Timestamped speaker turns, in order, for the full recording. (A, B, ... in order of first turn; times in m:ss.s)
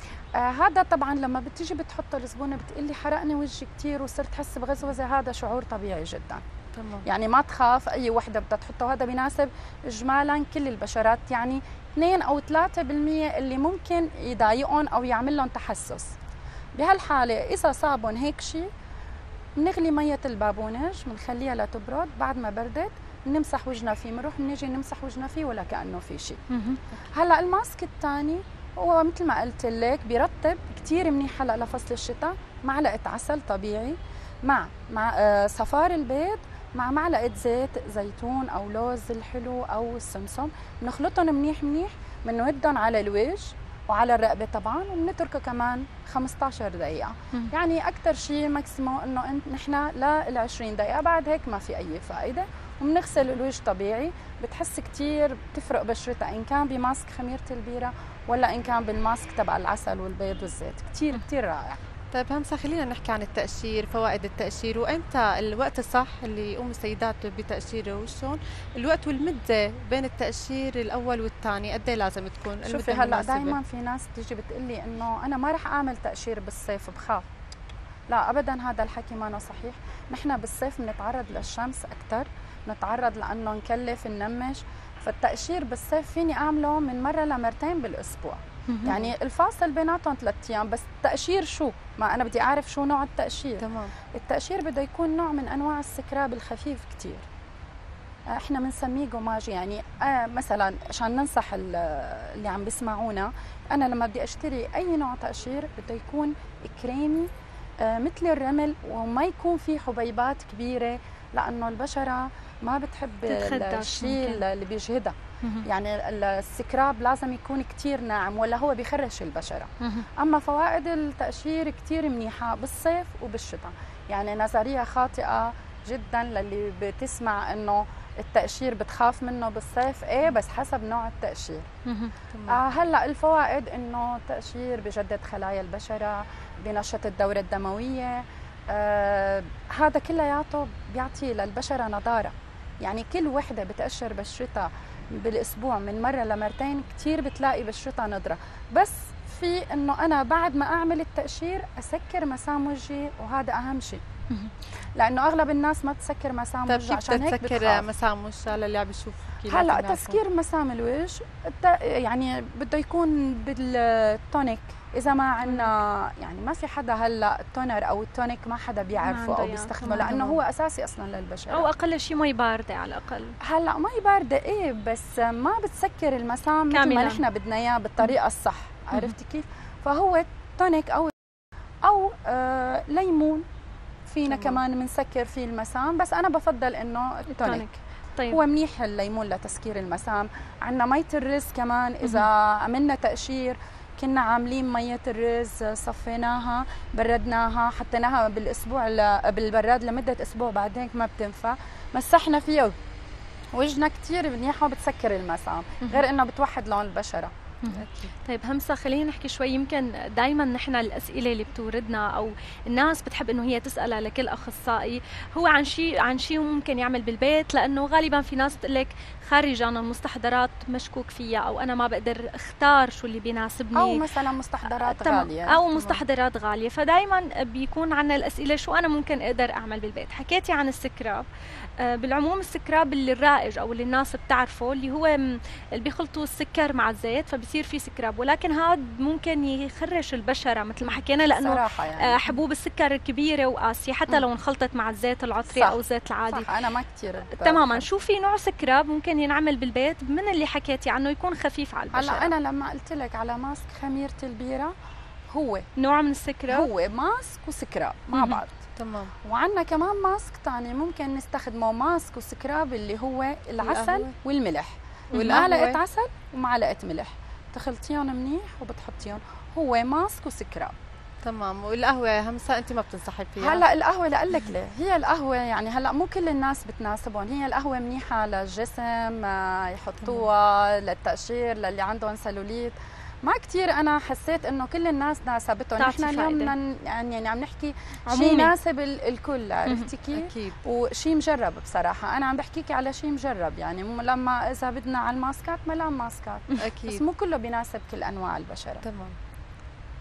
0:00.4-0:06.4 A
0:06.8-0:07.1 B
0:07.0-0:16.1 A
0:16.8-0:18.7 A
0:19.6-0:26.4 A
0:26.5-0:26.8 C
0:27.1-1:01.8 A
1:02.1-1:13.6 B
1:12.6-1:17.3 A
1:18.1-1:37.2 A
1:28.7-1:29.0 C
1:33.6-1:33.9 B
1:38.3-1:47.3 A
1:47.8-2:11.7 A
1:53.3-1:54.4 C
1:55.4-1:55.7 C
2:11.8-2:12.1 C
2:12.3-2:12.6 B
2:12.5-2:34.0 A
2:35.0-2:37.9 A
2:36.7-2:40.2 B
2:39.5-2:51.7 A
2:45.4-2:45.7 C
2:49.0-2:50.4 C
2:51.5-2:53.4 C
2:53.4-3:01.1 A
2:56.7-2:57.2 C
3:01.8-3:03.4 A
3:04.1-3:07.6 A
3:04.3-3:04.6 B
3:07.3-3:08.4 C
3:08.3-3:22.8 A
3:23.5-3:27.3 A
3:27.6-3:44.0 C
3:27.7-3:28.1 B
3:43.7-3:45.7 A
3:44.6-3:51.3 C
3:51.8-4:06.5 C
4:00.9-4:02.2 A
4:05.5-4:07.9 A
4:07.3-4:12.3 C
4:11.9-4:14.7 A
4:15.3-4:15.7 A
4:15.8-4:16.7 C
4:16.5-4:18.6 A
4:18.8-4:19.1 B
4:19.2-4:30.8 A
4:23.6-4:24.1 B
4:25.1-4:25.8 B
4:25.2-4:25.4 C
4:31.2-4:33.6 B
4:33.4-4:58.8 A
4:45.8-4:46.5 C
4:48.1-4:48.5 C
4:50.1-4:50.6 B
4:56.6-4:57.0 B
4:58.8-4:59.2 B